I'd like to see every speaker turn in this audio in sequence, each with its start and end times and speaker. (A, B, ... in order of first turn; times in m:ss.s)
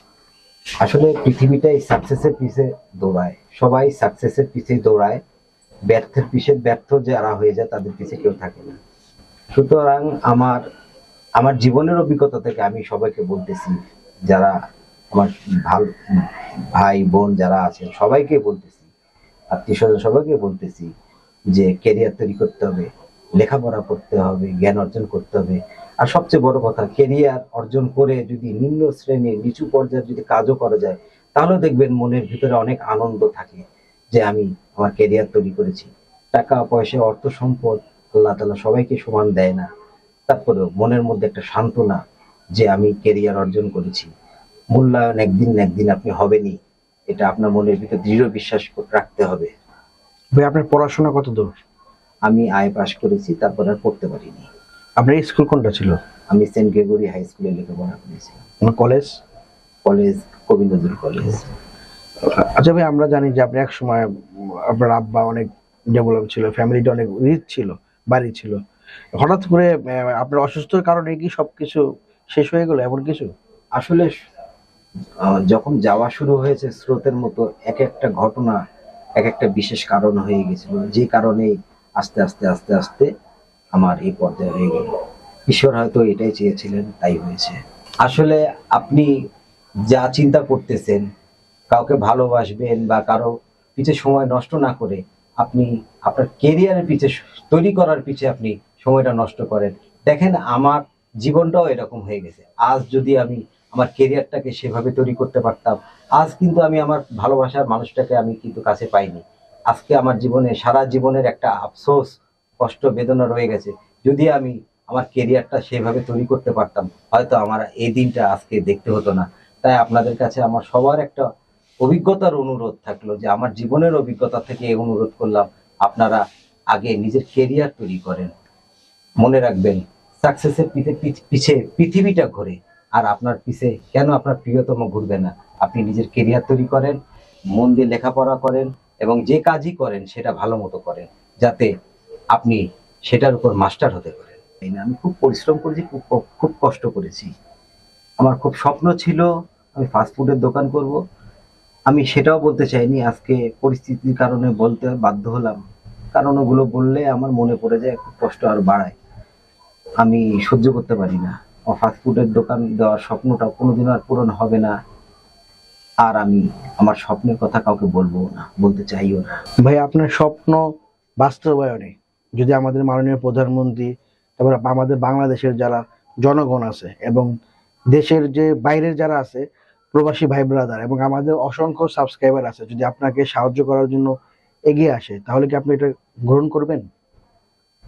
0:00.8-0:05.2 A
0:05.9-0:08.8 A
0:09.6-0:10.6 A
0:11.4-0:13.8 A
0:15.1-0:18.8 A
0:19.5-0:20.9 A
0:21.5-0:22.9 A
0:23.4-0:33.6 A
0:34.2-0:39.7 A
0:40.3-0:42.0 A
0:42.6-0:44.1 A
0:44.7-0:46.6 A
0:47.1-0:49.5 A
0:50.4-0:51.6 B
0:52.3-0:54.5 A
0:55.0-0:56.0 B
0:56.3-0:58.4 A
0:58.6-0:59.2 B
0:59.8-1:01.5 A
1:02.3-1:04.1 B
1:04.7-1:08.6 B
1:09.2-1:13.3 B
1:13.8-1:14.1 A
1:15.2-1:18.6 A
1:19.2-1:23.1 A
1:23.8-1:24.9 A
1:25.5-1:29.1 A
1:29.9-1:31.0 A
1:31.7-1:52.1 A
1:52.6-2:01.2 A
2:01.8-2:06.2 A
2:06.7-2:08.3 A
2:09.2-2:17.0 A
2:17.6-2:21.7 A
2:22.3-2:27.3 A
2:28.2-2:29.3 A
2:29.8-2:31.0 A
2:31.9-2:35.6 A
2:36.2-2:39.0 A
2:40.0-2:44.7 A
2:46.0-2:49.3 A
2:49.6-2:50.6 B
2:51.2-2:57.3 B
2:57.9-3:04.1 B
3:04.7-3:06.9 B